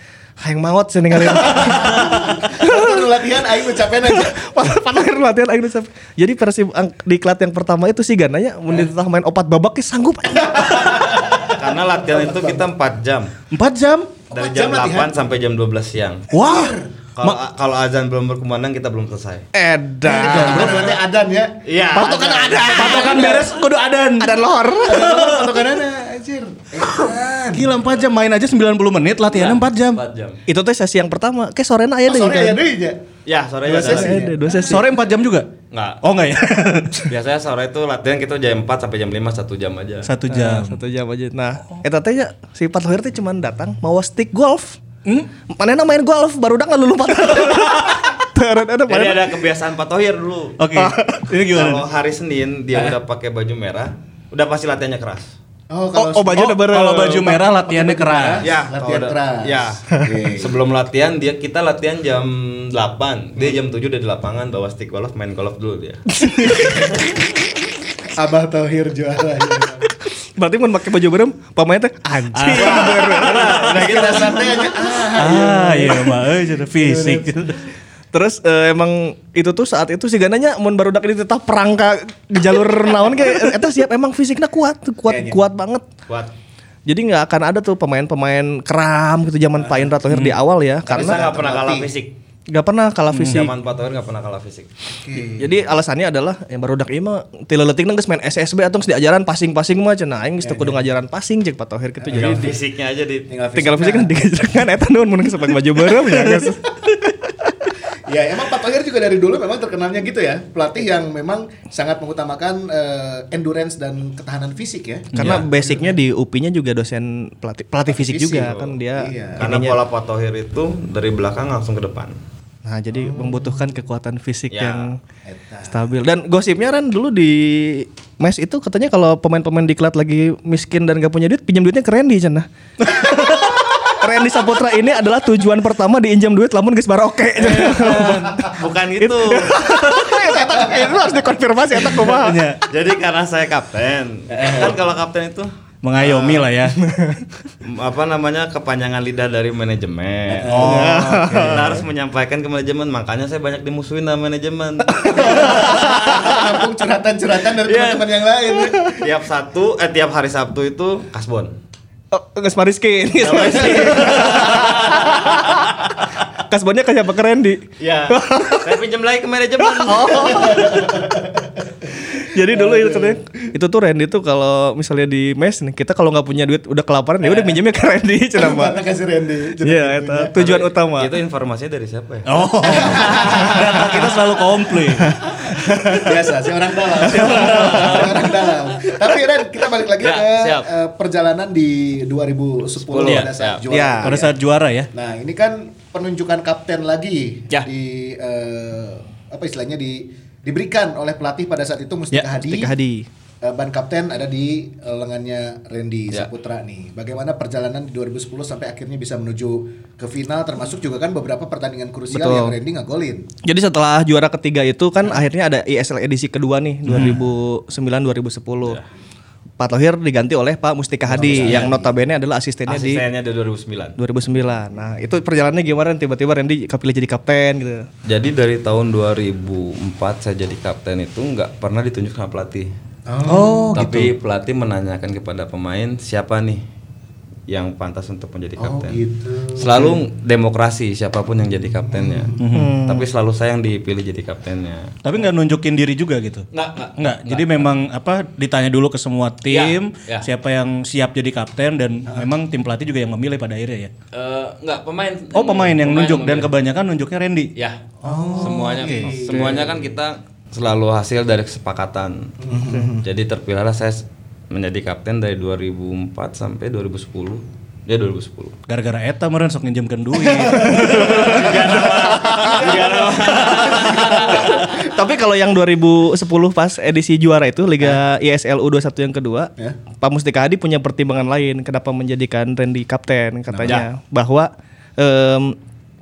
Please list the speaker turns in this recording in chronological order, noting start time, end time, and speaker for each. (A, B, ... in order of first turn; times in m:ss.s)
0:00.4-0:03.1 A
0:01.4-0:04.6 B
0:04.0-0:10.8 A
0:10.4-0:12.6 B
0:10.8-0:13.3 C
0:13.5-0:14.2 D
0:14.3-0:15.1 B
0:14.3-0:16.3 C
0:16.3-0:16.9 B
0:16.3-0:17.3 D
0:17.2-0:19.4 C
0:19.5-0:21.0 A
0:20.0-0:23.5 B
0:20.2-0:20.9 D
0:21.6-0:23.0 C
0:22.0-0:25.6 D
0:22.1-0:23.3 A
0:24.2-0:25.3 A
0:24.8-0:27.7 B
0:26.9-0:30.0 D
0:29.3-0:30.4 C
0:30.5-0:32.6 A
0:32.0-0:33.0 B
0:33.2-0:34.2 C
0:33.6-0:34.8 B
0:33.8-0:34.9 A
0:34.6-0:35.5 D
0:35.7-0:36.0 C
0:36.0-0:37.1 D
0:37.1-0:40.1 C
0:40.0-0:40.8 D
0:40.3-0:44.8 A
0:45.4-0:49.4 A
0:47.4-0:47.9 D
0:48.9-0:50.6 C
0:50.6-0:51.8 D
0:50.7-0:51.2 A
0:51.4-0:55.3 C
0:55.7-0:56.6 B
0:55.9-0:57.4 A
0:56.3-0:58.4 D
0:57.2-1:00.6 B
0:58.4-1:06.0 C
1:06.1-1:07.3 A
1:06.6-1:07.0 B
1:08.1-1:09.9 B
1:10.0-1:14.6 A
1:12.3-1:13.5 D
1:12.5-1:14.7 C
1:13.5-1:16.2 B
1:15.1-1:17.6 D
1:15.3-1:15.9 A
1:16.8-1:17.3 B
1:18.1-1:25.9 A
1:25.1-1:25.4 B
1:26.8-1:31.2 A
1:30.1-1:30.4 D
1:30.8-1:32.1 C
1:30.9-1:31.9 B
1:32.5-1:33.5 A
1:33.1-1:33.4 D
1:33.2-1:34.7 C
1:35.0-1:35.6 B
1:35.3-1:42.5 A
1:40.4-1:40.8 B
1:42.0-1:42.6 B
1:42.1-1:43.3 C
1:43.3-1:44.1 B
1:43.5-1:47.7 A
1:48.1-1:55.9 B
1:55.1-1:55.5 D
1:55.1-1:59.8 A
1:57.9-1:59.5 B
1:58.4-1:58.7 C
1:59.4-2:02.2 C
2:02.6-2:05.0 A
2:02.9-2:03.7 B
2:04.5-2:04.9 C
2:05.2-2:05.8 B
2:05.7-2:22.5 A
2:17.4-2:19.7 C
2:20.3-2:21.0 B
2:22.0-2:22.6 D
2:22.6-2:26.4 C
2:24.3-2:24.7 B
2:25.8-2:26.8 D
2:26.8-2:27.2 A
2:27.6-2:36.4 C
2:30.3-2:30.9 B
2:30.4-2:31.8 D
2:30.5-2:31.7 A
2:34.8-2:36.2 A
2:35.0-2:39.0 B
2:37.6-2:38.2 C
2:38.7-2:41.5 C
2:42.1-2:45.8 A
2:43.2-2:46.1 C
2:43.4-2:44.7 B
2:46.4-2:48.8 A
2:47.8-2:50.6 C
2:49.6-2:51.0 A
2:50.2-2:53.2 B
2:52.1-2:58.8 A
2:58.3-3:00.3 B
2:59.6-3:01.1 A
3:00.3-3:02.3 C
3:02.2-3:06.0 D
3:02.6-3:04.2 B
3:05.0-3:06.1 A
3:05.9-3:14.3 B
3:07.0-3:08.1 D
3:07.0-3:08.1 A
3:07.5-3:08.2 C
3:10.0-3:10.7 C
3:12.8-3:13.6 C
3:13.7-3:14.2 A
3:14.0-3:14.9 D
3:14.9-3:22.7 B
3:22.1-3:23.1 A
3:23.4-3:33.2 B
3:32.1-3:32.5 A
3:33.4-3:38.8 A
3:36.8-3:37.2 D
3:39.6-3:43.0 A
3:41.1-3:41.9 B
3:41.2-3:41.7 C
3:42.7-3:44.0 C
3:44.0-3:47.9 A
3:48.0-3:52.7 C
3:53.1-3:54.1 B
3:53.3-3:53.8 D
3:53.7-3:56.6 C
3:57.5-3:59.0 C
3:58.6-4:00.0 B
3:59.6-4:05.0 C
4:01.9-4:02.4 B
4:02.4-4:02.8 D
4:02.5-4:03.1 A
4:05.0-4:13.9 D
4:06.5-4:07.7 C
4:09.4-4:10.3 C
4:14.1-4:16.5 C
4:15.3-4:17.5 D
4:17.6-4:22.3 C
4:18.0-4:19.8 B
4:18.1-4:19.2 D
4:22.4-4:23.0 B
4:23.0-4:28.6 C
4:28.7-4:32.5 D
4:30.5-4:34.9 B
4:30.6-4:31.7 A
4:30.7-4:34.7 C
4:34.2-4:45.6 A